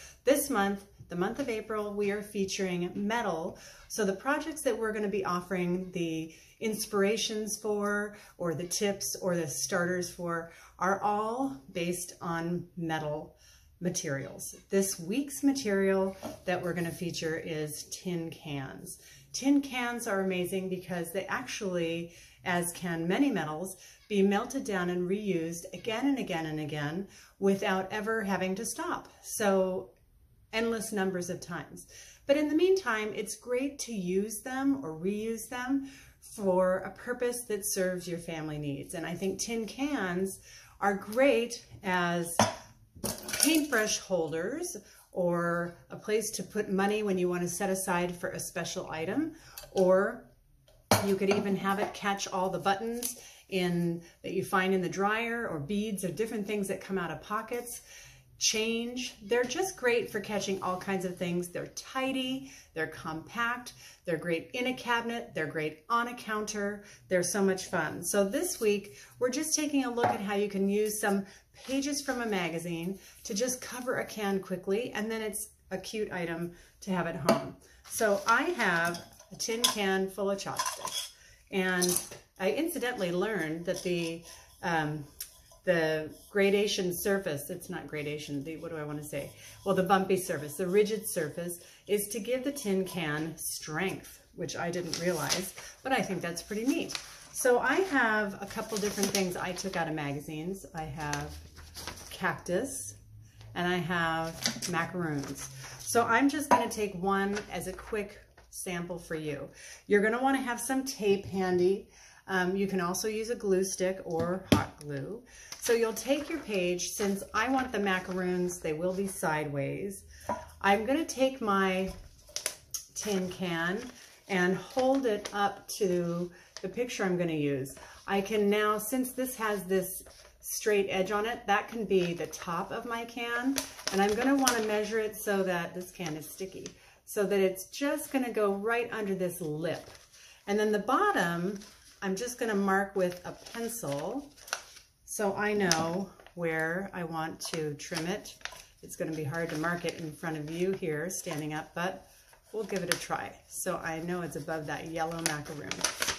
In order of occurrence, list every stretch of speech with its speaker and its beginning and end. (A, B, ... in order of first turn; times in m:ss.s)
0:00.2-0:29.9 A
0:30.5-0:42.4 A
0:43.3-0:50.3 A
0:51.0-0:57.8 A
0:58.4-1:25.1 A
1:25.6-1:41.4 A
1:42.1-1:43.0 A
1:43.5-2:00.0 A
2:00.6-2:01.9 A
2:03.0-2:19.9 A
2:20.5-2:24.3 A
2:25.1-2:35.9 A